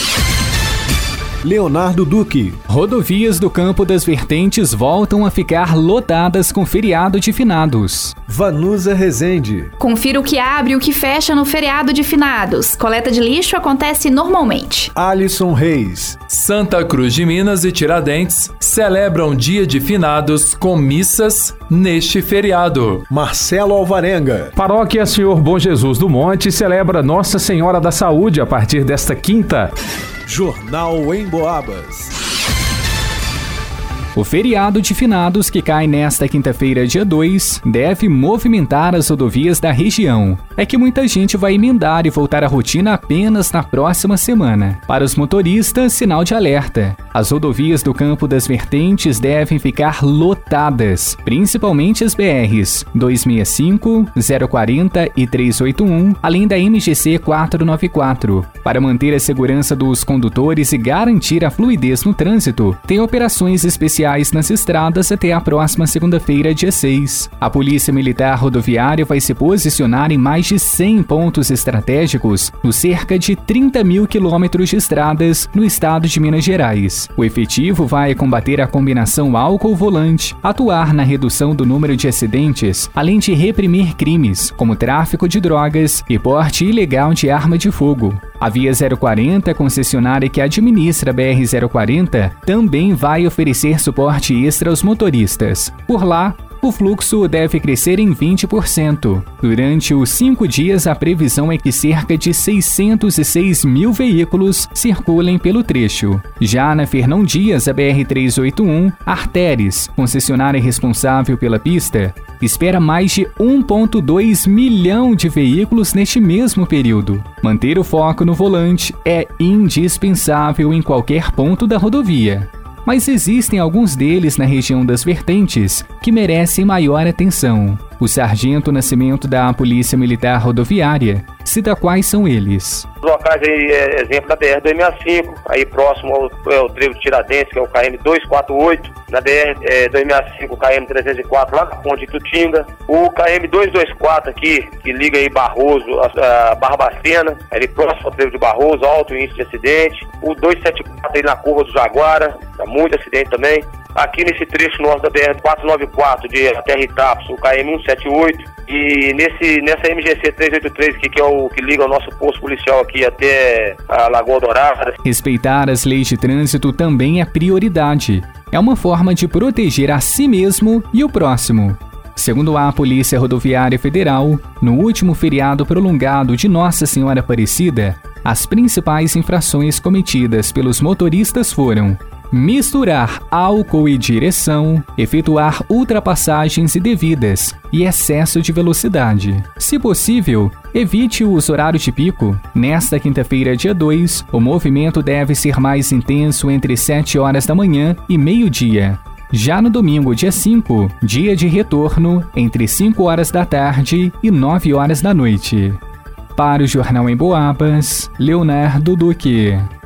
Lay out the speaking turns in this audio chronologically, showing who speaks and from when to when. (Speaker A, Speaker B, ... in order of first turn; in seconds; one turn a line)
Speaker A: 1.4-2.6
Speaker B: 2.7-8.1
Speaker A: 8.3-9.7
Speaker C: 9.8-14.9
Speaker A: 14.9-16.2
Speaker D: 16.3-23.0
Speaker A: 23.1-24.5
Speaker E: 24.6-29.7
Speaker A: 30.2-32.1
Speaker B: 34.1-132.8
Speaker F: 133.0-164.9
Speaker B: 165.0-205.8
Speaker B: 206.3-209.7